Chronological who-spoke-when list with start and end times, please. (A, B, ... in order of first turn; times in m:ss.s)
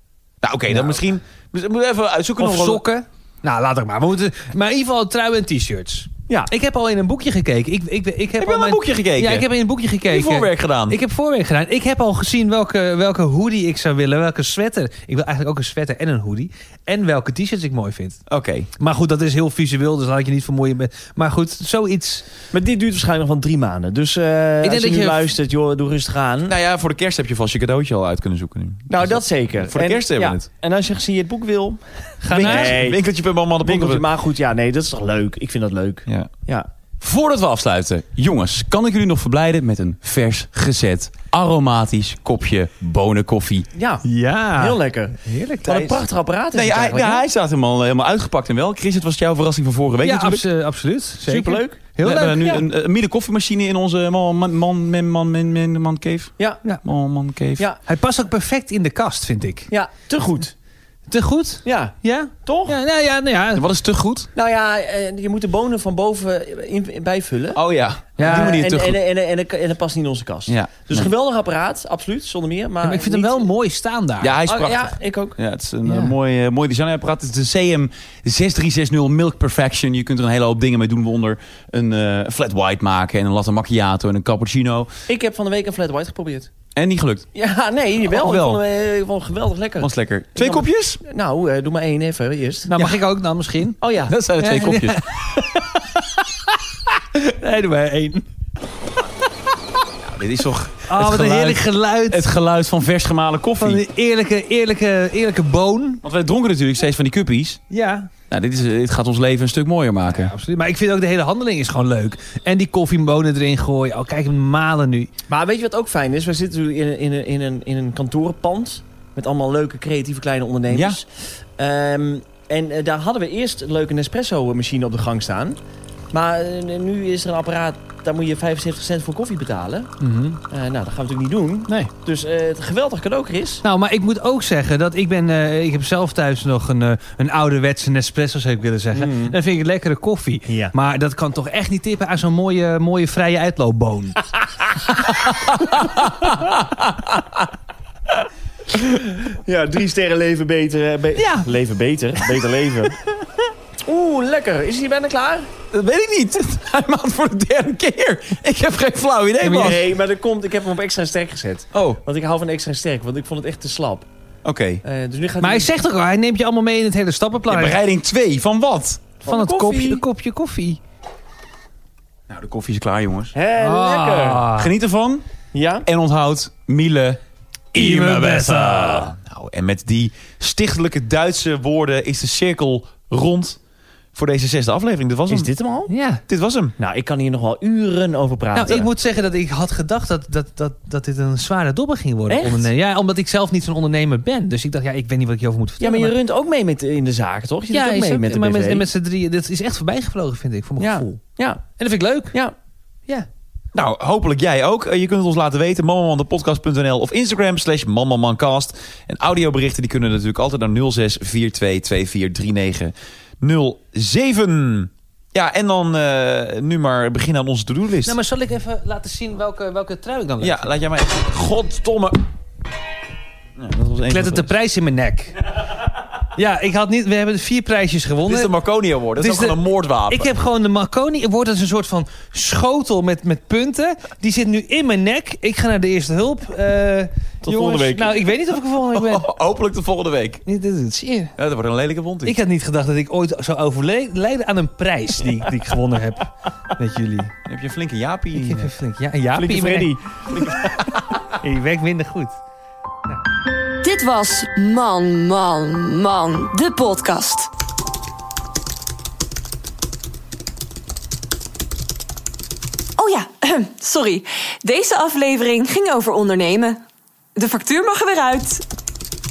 0:00.4-0:02.8 A
0:00.7-0:01.0 B
0:02.4-0:18.2 C
0:08.4-0:09.5 A
0:10.0-0:11.0 A
0:18.3-0:18.7 A
0:18.8-0:22.3 C
0:22.5-0:26.5 B
0:24.6-0:25.3 C
0:26.4-0:30.5 A
0:28.9-0:33.0 B
0:32.2-0:32.8 C
0:32.3-0:34.0 A
0:33.6-0:36.7 B
0:36.0-0:36.3 A
0:37.0-0:43.7 A
0:43.8-0:44.0 B
0:44.0-0:45.7 C
0:44.6-0:47.2 B
0:45.6-0:46.0 A
0:46.5-0:50.4 A
0:50.0-0:52.6 C
0:51.3-0:51.8 B
0:52.0-0:57.6 A
0:52.4-0:52.6 B
0:57.9-0:59.7 C
0:59.7-1:00.5 B
1:01.1-1:03.7 C
1:01.6-1:02.7 B
1:03.5-1:04.3 A
1:04.3-1:07.6 B
1:07.5-1:09.0 A
1:08.2-1:08.6 C
1:08.2-1:13.5 B
1:10.5-1:11.1 A
1:12.8-1:14.3 C
1:14.2-1:24.9 A
1:14.4-1:15.4 B
1:15.9-1:16.1 C
1:25.1-1:26.5 B
1:26.7-1:27.3 A
1:27.3-1:32.7 B
1:28.0-1:28.6 A
1:29.8-1:31.0 A
1:32.7-1:33.8 C
1:33.8-1:34.1 B
1:34.0-1:35.0 A
1:34.4-1:36.2 C
1:37.2-1:38.2 C
1:40.0-1:43.8 A
1:40.9-1:42.3 C
1:43.6-1:46.0 C
1:46.0-1:47.6 A
1:47.7-1:48.1 C
1:48.3-1:50.3 A
1:50.1-1:55.1 C
1:55.3-2:05.6 B
2:00.7-2:01.0 A
2:06.1-2:09.9 B
2:10.0-2:10.4 C
2:10.5-2:13.6 B
2:13.6-2:24.2 C
2:18.9-2:19.4 B
2:20.5-2:20.7 B
2:25.0-2:25.5 C
2:26.3-2:26.9 B
2:28.7-2:33.0 B
2:31.2-2:31.5 C
2:33.9-2:35.5 B
2:35.7-2:39.8 A
2:39.4-2:39.8 C
2:39.5-2:44.0 B
2:41.7-2:42.0 A
2:44.4-2:44.8 A
2:44.8-2:45.7 B
2:45.4-2:47.8 C
2:47.5-2:49.1 A
2:49.2-2:50.0 B
2:49.2-2:50.8 C
2:52.3-2:53.3 A
2:53.3-2:54.5 B
2:53.6-2:54.7 C
2:54.5-2:55.2 A
2:55.5-2:55.9 B
2:55.8-2:57.2 A
2:57.7-3:03.6 A
2:57.7-2:59.1 C
3:04.1-3:05.5 A
3:05.3-3:05.9 B
3:05.9-3:06.2 C
3:06.3-3:06.7 A
3:06.8-3:08.9 B
3:08.5-3:16.1 C
3:12.3-3:12.7 B
3:15.8-3:18.8 B
3:17.7-3:21.2 C
3:20.8-3:21.6 B
3:21.8-3:22.3 C
3:23.7-3:38.2 A
3:38.0-3:40.7 C
3:40.4-3:42.2 A
3:43.6-3:44.5 A
3:44.1-3:45.4 C
3:46.3-3:48.5 C
3:48.2-3:50.3 A
3:49.2-3:59.3 C
3:57.4-3:58.1 B
3:58.9-4:00.4 A
4:00.4-4:01.3 C
4:01.4-4:02.4 A
4:02.2-4:07.3 C
4:07.4-4:08.7 A
4:08.3-4:10.0 C
4:09.3-4:10.2 B
4:11.3-4:12.4 C
4:13.8-4:17.5 D
4:23.0-4:26.8 D
4:27.3-4:28.6 D